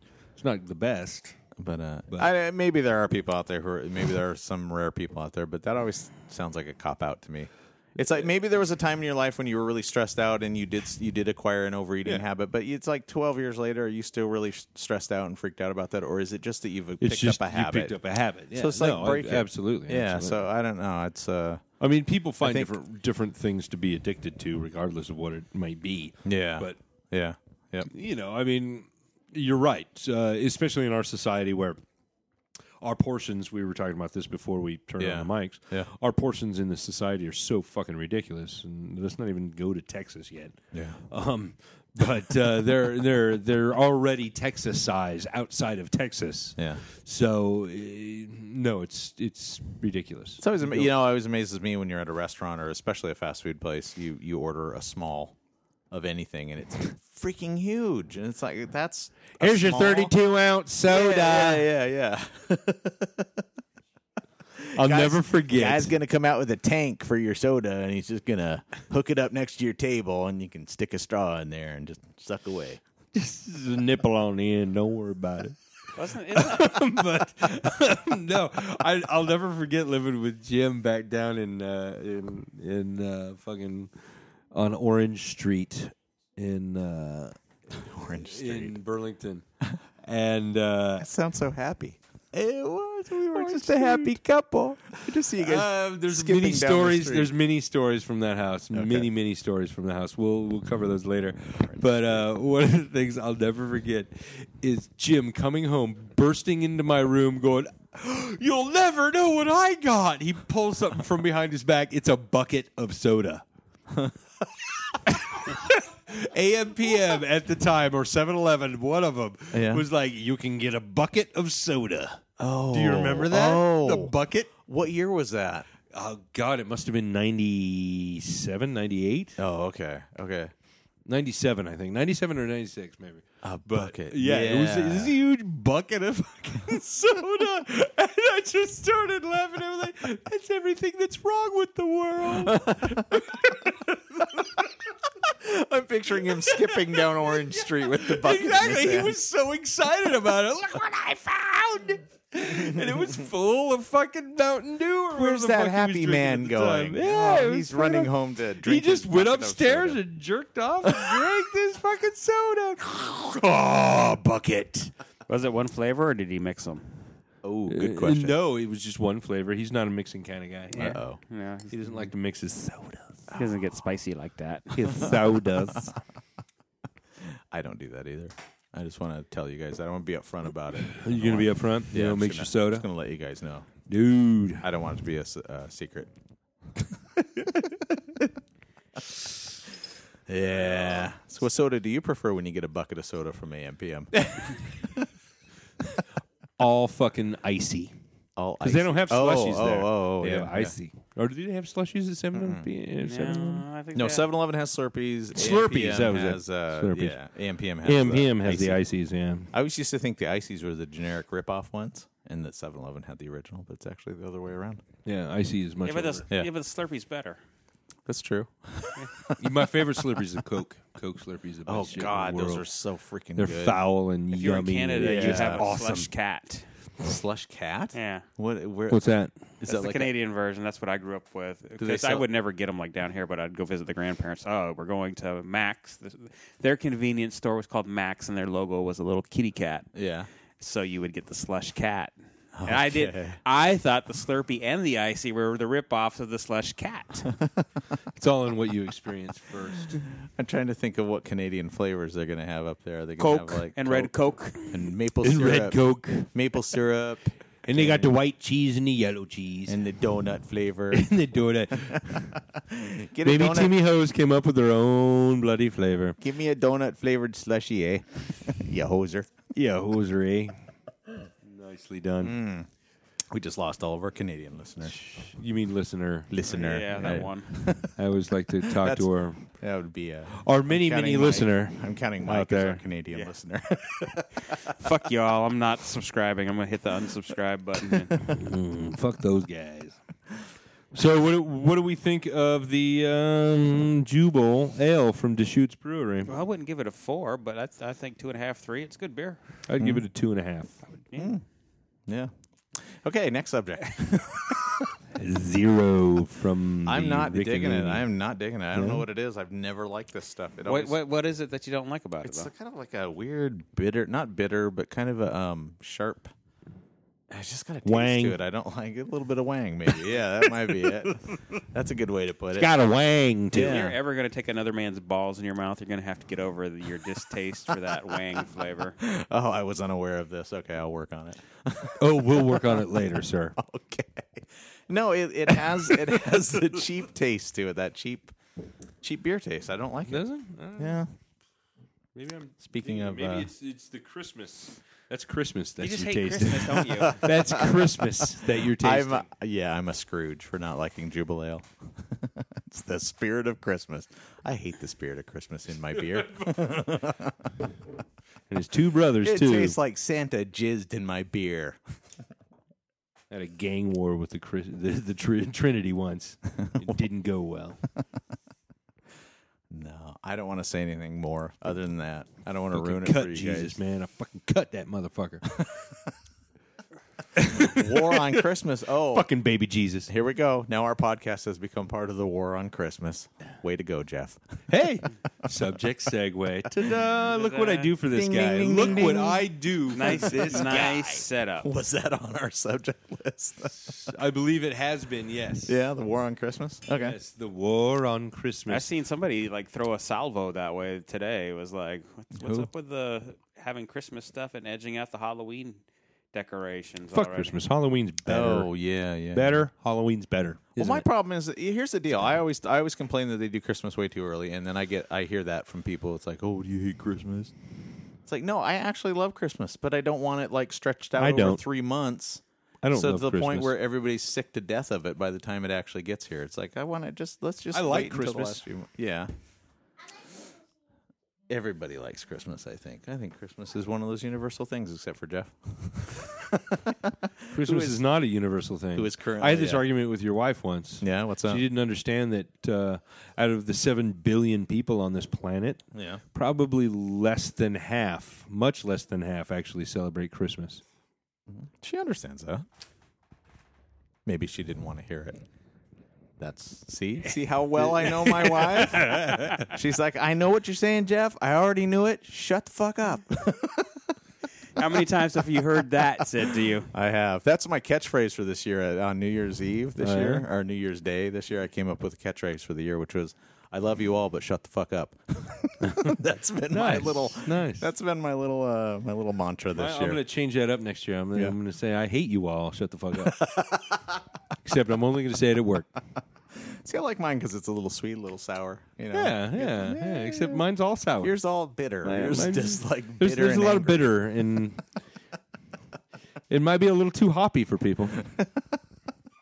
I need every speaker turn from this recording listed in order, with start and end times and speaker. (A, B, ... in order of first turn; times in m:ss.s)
0:00.4-0:01.4 A
0:01.6-0:18.0 B
0:17.0-0:20.4 A
0:18.5-0:21.6 B
0:21.8-0:26.8 A
0:22.4-0:22.7 B
0:26.2-0:27.9 B
0:27.9-0:31.8 A
0:32.8-0:50.9 A
0:35.0-0:35.9 B
0:40.7-0:41.0 B
0:46.6-0:46.8 B
0:50.4-0:55.4 B
0:55.9-1:00.1 B
0:59.4-1:01.7 A
1:00.9-1:03.4 B
1:04.6-1:12.8 B
1:04.7-1:05.9 A
1:13.1-1:15.6 A
1:15.9-1:16.7 C
1:16.3-1:23.9 A
1:24.5-1:27.4 A
1:27.7-1:28.8 B
1:28.2-1:29.4 A
1:30.0-1:31.1 A
1:31.0-1:37.3 B
1:33.1-1:34.2 A
1:35.0-1:53.4 A
1:38.7-1:39.1 B
1:41.6-1:42.0 B
1:55.1-2:04.5 A
1:59.5-1:59.8 B
2:02.4-2:05.6 B
2:05.9-2:09.4 A
2:09.4-2:10.5 B
2:11.0-2:24.5 A
2:13.4-2:15.1 B
2:22.4-2:23.4 B
2:25.2-2:29.1 B
2:26.2-2:44.9 A
2:35.1-2:40.0 B
2:40.8-2:41.3 B
2:45.3-2:46.9 C
2:47.4-2:48.4 B
2:47.7-2:51.0 A
2:50.7-2:51.9 C
2:50.7-2:51.2 B
2:51.7-2:53.2 A
2:53.3-2:53.6 B
2:53.3-2:55.1 C
2:54.7-2:56.0 A
2:57.2-3:03.8 B
3:00.9-3:02.9 A
3:03.9-3:04.6 A
3:04.6-3:06.1 B
3:10.3-3:15.1 B
3:10.7-3:11.0 A
3:16.6-3:17.9 A
3:18.4-3:20.8 B
3:18.6-3:23.6 A
3:22.3-3:22.7 B
3:23.0-3:24.3 C
3:23.9-3:28.8 B
3:25.3-3:27.2 A
3:27.8-3:29.5 A
3:29.5-3:34.8 B
3:35.0-3:36.2 A
3:35.8-3:37.4 C
3:38.0-3:39.4 B
3:39.4-3:42.7 A
3:41.6-3:43.8 B
3:43.4-3:46.1 A
3:44.3-3:46.6 C
3:45.0-3:45.6 B
3:47.0-3:50.1 B
3:47.9-3:48.2 C
3:48.9-3:49.3 A
3:49.6-3:59.9 C
3:51.8-3:52.2 B
3:59.9-4:00.3 B
4:00.6-4:07.3 C
4:02.5-4:03.4 B
4:08.2-4:10.0 A
4:10.2-4:18.1 B
4:13.2-4:14.6 C
4:15.2-4:16.3 A
4:17.6-4:19.8 A
4:19.7-4:21.1 B
4:20.9-4:22.4 A
4:21.8-4:23.8 B
4:23.2-4:26.2 A
4:26.2-4:29.3 B
4:29.5-4:30.5 A
4:31.4-4:32.4 A
4:32.2-4:32.7 B
4:33.3-4:35.0 B
4:34.8-4:36.3 A
4:36.3-4:38.0 B
4:36.4-4:37.5 C
4:37.0-4:37.2 A
4:37.9-4:39.5 A
4:38.7-4:44.7 B
4:40.4-4:42.8 A
4:44.6-4:48.3 C
4:48.1-4:50.0 A
4:50.9-4:56.3 A
4:56.3-4:59.4 C
4:59.6-5:00.8 A
4:59.8-5:00.0 B
5:01.0-5:01.3 C
5:01.1-5:01.4 B
5:02.1-5:04.9 B
5:05.1-5:08.1 A
5:06.8-5:11.0 B
5:08.7-5:09.0 A
5:10.6-5:12.5 C
5:12.2-5:16.3 B
5:17.3-5:22.7 B
5:17.8-5:18.4 A
5:22.5-5:23.9 A
5:23.5-5:24.0 B
5:23.5-5:29.0 C
5:29.0-5:32.8 B
5:32.0-5:33.6 A
5:33.6-5:38.3 B
5:35.8-5:36.1 A
5:39.0-5:41.1 B
5:40.1-5:41.0 A
5:42.1-5:49.2 A
5:42.6-5:43.5 B
5:45.8-5:47.2 C
5:46.9-5:57.5 B
5:58.5-5:59.8 A
5:59.2-6:01.8 B
6:03.3-6:07.8 A
6:09.7-6:13.8 B
6:12.7-6:15.6 A
6:15.6-6:15.9 B
6:17.3-6:18.4 A
6:17.6-6:19.3 B
6:19.1-6:20.1 A
6:20.1-6:24.4 B
6:24.7-6:31.2 A
6:27.3-6:27.9 C
6:28.1-6:34.0 B
6:29.9-6:31.7 C
6:33.8-6:35.8 A
6:35.6-6:37.2 B
6:37.0-6:38.9 A
6:38.7-6:47.6 C
6:42.4-6:42.6 B
6:47.1-6:48.8 A
6:48.2-6:49.6 B
6:49.3-6:51.0 A
6:50.8-6:57.5 B
6:58.2-7:09.3 B
7:01.2-7:01.6 A
7:02.8-7:03.7 A
7:07.7-7:08.6 A
7:11.5-7:18.0 B
7:17.5-7:30.8 A
7:18.9-7:19.8 B
7:21.0-7:21.6 B
7:25.9-7:26.2 B
7:31.5-7:32.6 B
7:34.2-7:35.4 B
7:36.4-7:44.1 B
7:38.1-7:39.6 A
7:44.8-7:46.9 C
7:46.9-8:00.2 B
7:50.0-7:50.4 A
7:56.7-7:57.9 A
7:59.7-8:03.4 A
8:03.2-8:04.2 B
8:04.6-8:06.0 A
8:06.6-8:10.6 B
8:09.1-8:11.4 A
8:11.2-8:14.2 B
8:12.0-8:14.8 A
8:16.5-8:18.2 A